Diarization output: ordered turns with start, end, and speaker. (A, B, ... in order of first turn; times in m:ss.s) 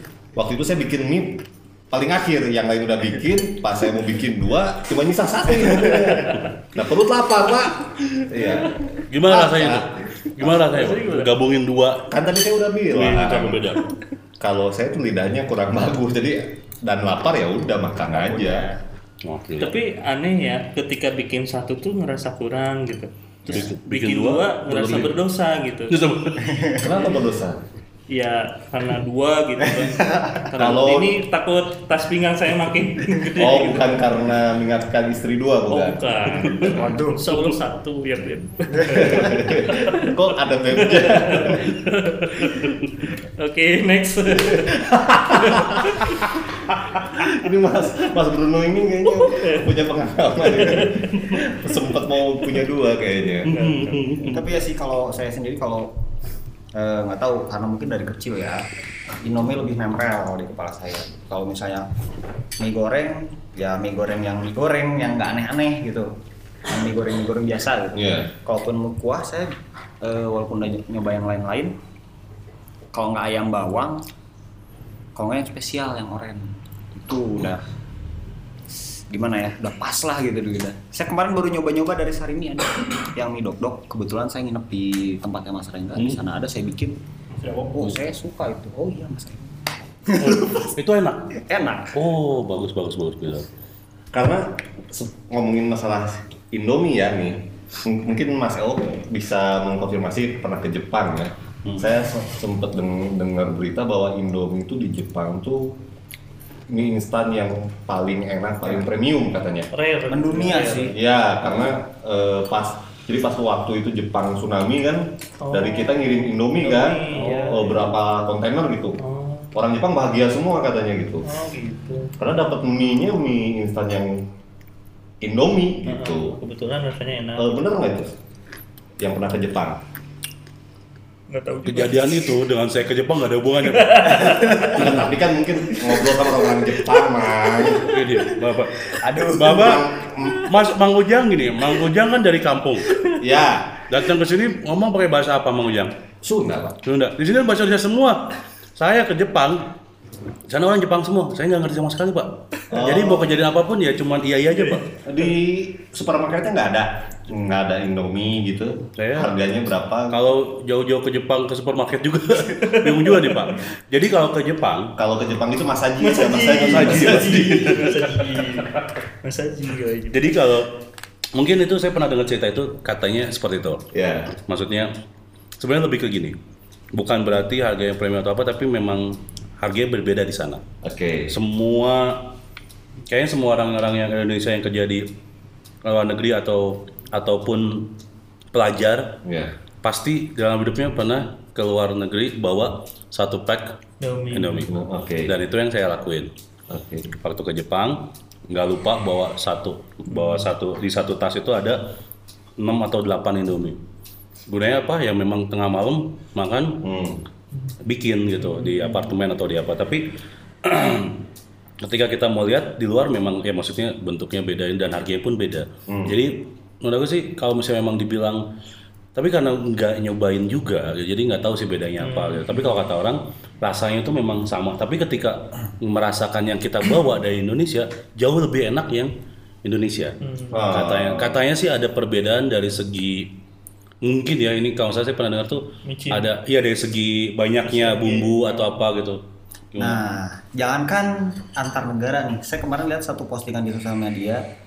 0:00.4-0:10.4 A
0:09.1-0:12.0 B
0:10.4-0:11.3 C
0:12.1-0:13.8 A
0:12.9-0:13.8 B
0:14.4-0:18.7 A
0:18.1-0:18.8 D
0:19.2-0:19.7 B
0:19.6-0:26.1 C
0:23.5-0:25.2 B
0:25.9-0:26.5 B
0:26.4-0:26.9 D
0:26.7-0:27.6 A
0:28.1-0:34.1 C
0:29.7-0:30.4 D
0:30.5-0:31.2 A
0:33.4-0:36.7 A
0:35.7-0:40.2 C
0:36.6-0:37.3 D
0:38.9-0:41.7 A
0:40.8-0:46.4 C
0:44.3-0:53.5 A
0:49.1-0:49.7 C
0:50.4-0:51.1 C
0:53.4-0:54.4 B
0:53.4-0:54.4 C
0:54.3-0:55.9 D
0:56.7-0:58.6 D
0:59.2-1:01.9 D
1:02.6-1:06.1 D
1:06.6-1:11.7 D
1:07.9-1:08.3 A
1:12.9-1:14.0 D
1:15.2-1:17.6 D
1:19.1-1:27.0 D
1:27.4-1:27.9 C
1:27.7-1:30.7 D
1:30.2-1:31.4 B
1:31.4-1:31.9 D
1:31.9-1:33.5 B
1:34.1-1:45.8 A
1:46.7-1:49.7 A
1:49.7-1:50.9 C
1:50.1-1:50.9 D
1:50.9-1:59.0 A
1:55.4-1:57.9 C
1:59.0-1:59.5 C
1:59.5-2:01.3 A
2:01.2-2:02.1 C
2:02.2-2:04.2 A
2:05.2-2:06.4 A
2:05.8-2:07.5 C
2:07.4-2:08.1 A
2:09.0-2:09.8 A
2:11.3-2:12.4 C
2:11.6-2:15.1 B
2:13.6-2:14.8 C
2:14.2-2:14.7 D
2:14.7-2:17.9 A
2:17.8-2:22.9 B
2:19.0-2:19.8 D
2:19.4-2:20.5 A
2:23.2-2:23.8 A
2:23.9-2:25.9 B
2:26.2-2:26.8 A
2:26.8-2:29.7 B
2:30.5-2:34.9 B
2:32.7-2:33.4 A
2:34.9-2:40.2 A
2:39.0-2:39.4 B
2:40.1-2:44.9 B
2:42.6-2:43.4 C
2:45.0-2:47.8 A
2:46.0-2:50.4 C
2:46.6-2:48.6 B
2:50.1-2:50.7 B
2:51.3-2:53.8 B
2:53.9-2:54.3 A
2:54.4-2:54.9 B
2:55.6-2:56.4 B
2:56.9-3:00.6 B
3:00.8-3:01.3 A
3:01.3-3:02.2 B
3:03.1-3:05.0 B
3:05.8-3:07.9 B
3:08.5-3:09.2 B
3:09.2-3:09.5 A
3:09.8-3:13.8 B
3:14.0-3:14.7 C
3:14.3-3:14.7 B
3:14.7-3:15.3 A
3:15.2-3:16.3 B
3:16.7-3:17.2 A
3:17.2-3:21.8 B
3:20.1-3:20.5 C
3:22.6-3:23.8 B
3:24.5-3:26.8 B
3:26.8-3:27.2 A
3:27.8-3:30.1 B
3:28.4-3:29.1 C
3:30.6-3:31.2 B
3:31.8-3:38.4 B
3:35.9-3:36.2 A
3:39.1-3:49.1 B
3:42.0-3:42.7 C
3:49.6-3:50.2 B
3:50.2-3:50.7 C
3:50.5-3:51.4 A
3:50.7-3:53.3 B
3:54.0-3:59.2 B
3:55.8-3:56.3 C
3:57.6-3:58.8 C
3:59.7-4:00.0 B
3:59.8-4:04.4 D